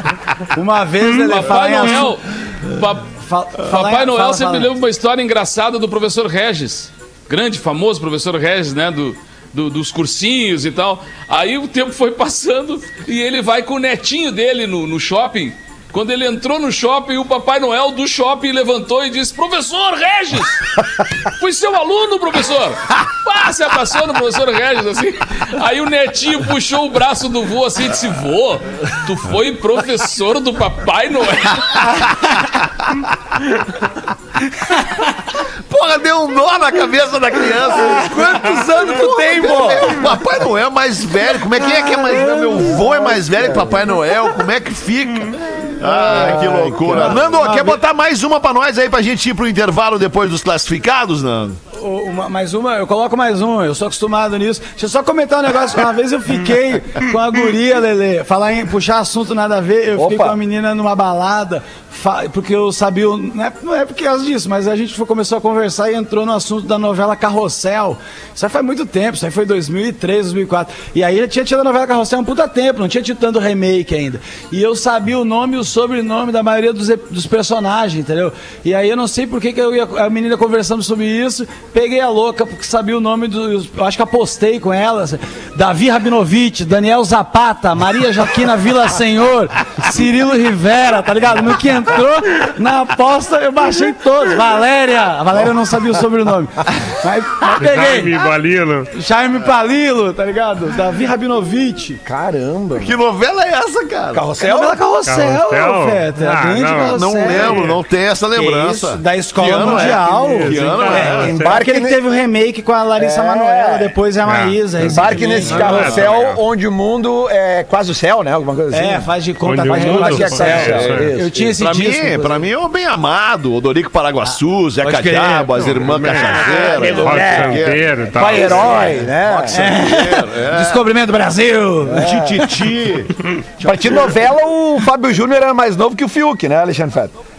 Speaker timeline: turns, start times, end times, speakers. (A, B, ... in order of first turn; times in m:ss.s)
0:00.5-0:02.1 A
0:01.2-0:31.9 B
0:03.1-0:04.7 A
0:31.9-0:33.2 C
0:34.6-0:35.1 A
0:35.4-0:51.6 C
0:37.7-0:40.0 A
0:38.0-0:38.9 D
0:41.6-0:42.8 A
0:42.8-0:43.9 D
0:45.8-0:47.2 D
0:46.1-0:47.8 A
0:51.7-1:38.2 A
1:00.0-1:00.4 D
1:37.6-1:38.9 E
1:38.9-1:42.0 A
1:42.0-1:43.0 D
1:42.8-1:44.2 C
1:44.1-1:44.8 D
1:44.4-1:47.6 A
1:45.0-1:47.8 E
1:46.9-1:51.3 C
1:48.3-1:56.1 A
1:49.7-1:51.5 E
1:51.1-1:52.0 D
1:53.0-1:53.9 D
1:54.2-1:56.4 E
1:54.9-1:59.1 D
1:58.7-2:02.4 A
1:59.4-2:01.1 E
1:59.6-2:01.5 D
2:01.6-2:10.8 C
2:04.3-2:07.5 A
2:05.9-2:06.3 E
2:06.2-2:09.7 D
2:06.8-2:08.8 E
2:08.5-2:08.9 A
2:09.5-2:12.2 A
2:11.8-2:12.7 D
2:12.0-2:14.2 C
2:13.6-2:17.2 D